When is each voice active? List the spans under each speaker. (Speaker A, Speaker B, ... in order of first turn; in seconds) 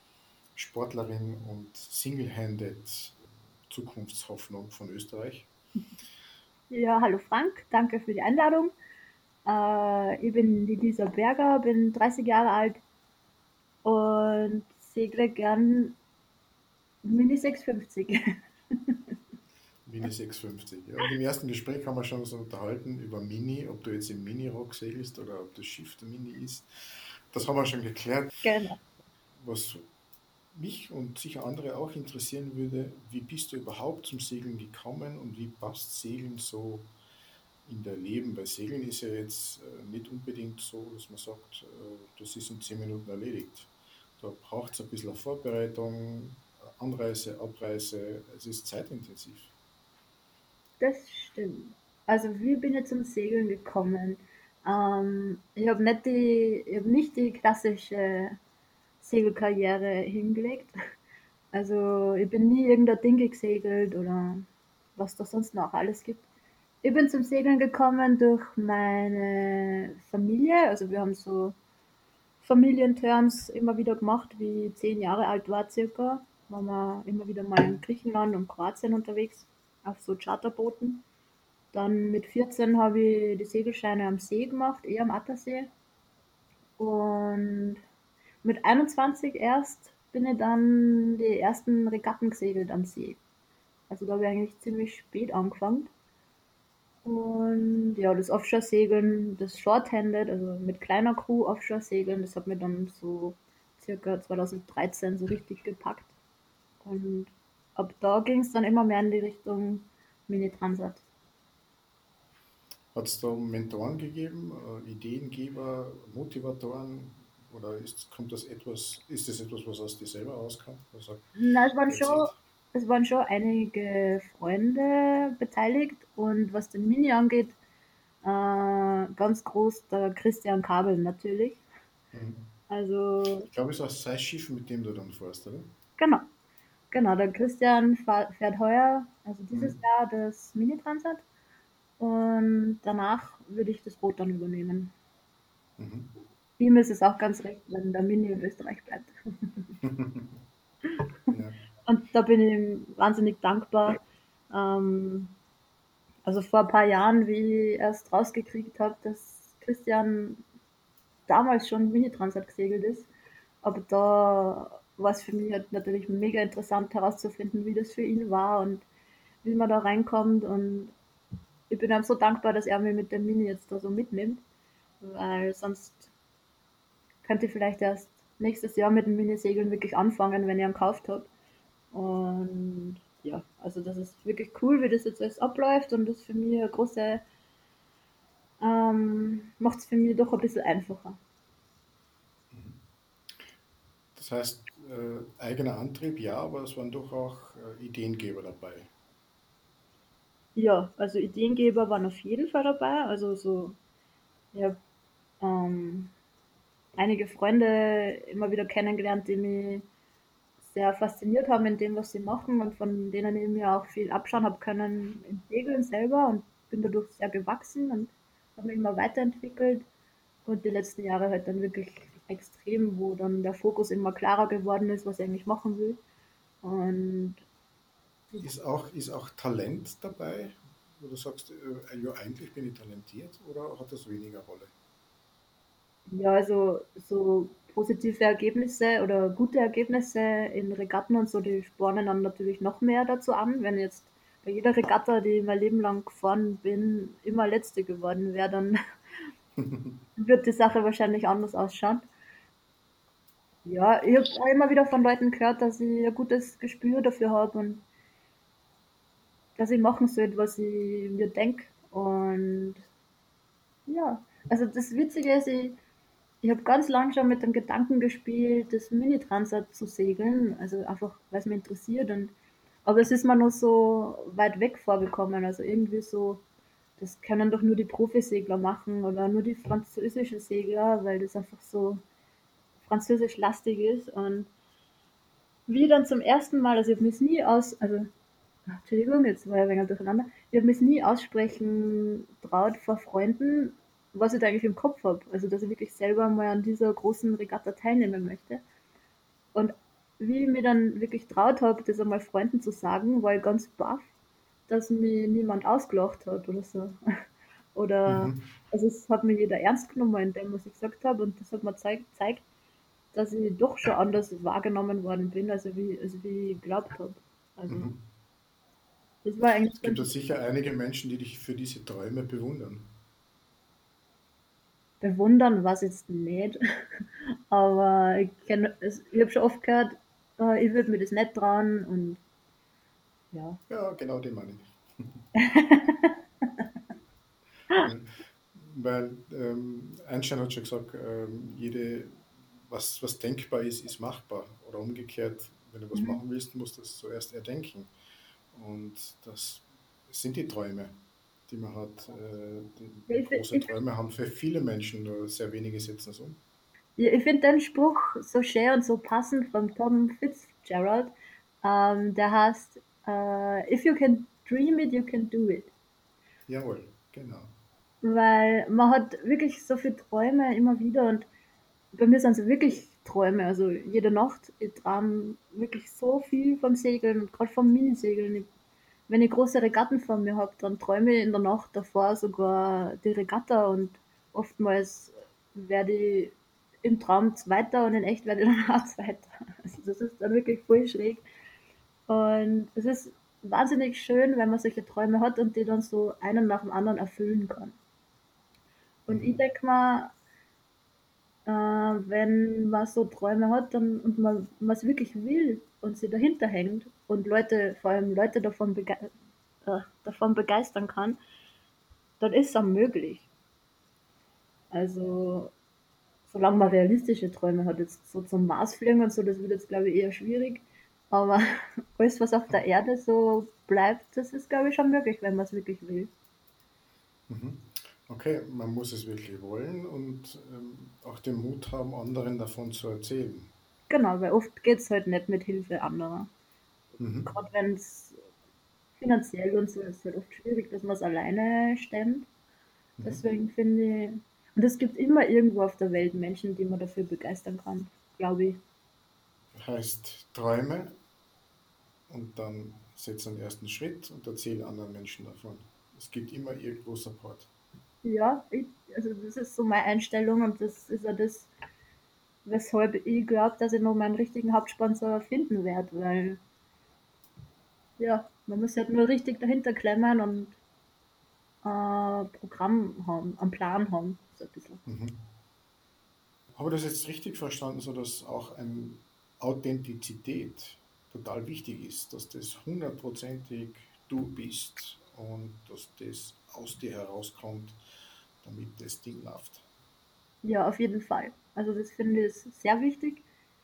Speaker A: 0.5-5.5, 19.9-26.7, 27.3-28.5, 29.4-29.9, 30.5-36.9, 37.6-49.5, 112.9-121.3, 121.8-122.4, 132.1-132.5, 133.4-135.7, 139.5-139.8, 145.8-146.2, 149.8-150.3, 151.3-151.6, 192.5-192.8, 194.1-198.9, 228.4-234.7, 249.6-249.9, 308.1-308.4, 317.7-318.1, 319.8-323.0, 333.7-335.2, 337.8-347.9, 348.5-356.4, 366.5-367.5, 399.1-399.4, 427.3-433.5, 437.0-437.3, 443.0-443.2, 449.5-450.9, 452.1-457.5, 474.8-475.2, 476.6-487.8, 488.4-489.7
Speaker B: 6.7-8.7, 9.4-12.8, 13.8-16.0, 17.0-18.2, 28.4-28.8, 50.8-58.4, 59.0-60.7, 61.5-66.2, 66.8-71.5, 72.4-81.0, 81.7-85.7, 86.8-87.8, 88.4-93.2, 93.9-95.9, 97.0-106.1, 106.8-111.0, 121.3-127.5, 128.2-131.6, 132.7-133.5, 136.0-136.2, 136.9-141.2, 142.0-144.9, 146.6-149.7, 151.8-154.0, 154.5-155.3, 156.2-160.4, 161.3-163.1, 163.6-168.8, 169.4-170.9, 171.7-174.4, 175.0-176.1, 177.2-181.3, 181.9-187.2, 188.6-191.2, 200.5-203.8, 204.5-204.8, 205.4-206.1, 206.9-209.8, 210.6-219.8, 220.4-226.0, 226.6-227.4, 236.1-248.8, 250.2-252.0, 253.7-257.8, 259.6-262.8, 263.9-265.8, 266.4-272.3, 272.8-276.4, 277.0-282.0, 282.8-284.5, 285.7-288.1, 288.7-298.6, 299.5-304.1, 304.7-306.9, 307.7-312.4, 313.1-317.9, 319.2-320.1, 325.0-326.6, 327.5-332.2, 333.3-333.6, 335.4-336.6, 345.9-346.2, 353.1-353.7, 357.0-361.1, 361.6-365.7, 368.0-371.3, 371.9-378.5, 379.1-391.2, 392.1-397.8, 399.1-400.1, 401.4-409.1, 409.6-411.2, 412.2-413.3, 414.7-415.5, 416.3-426.1, 433.9-436.3, 437.2-438.2, 439.0-442.3, 443.0-448.6, 458.0-461.5, 462.4-466.4, 468.0-470.6, 471.6-474.8, 490.4-493.2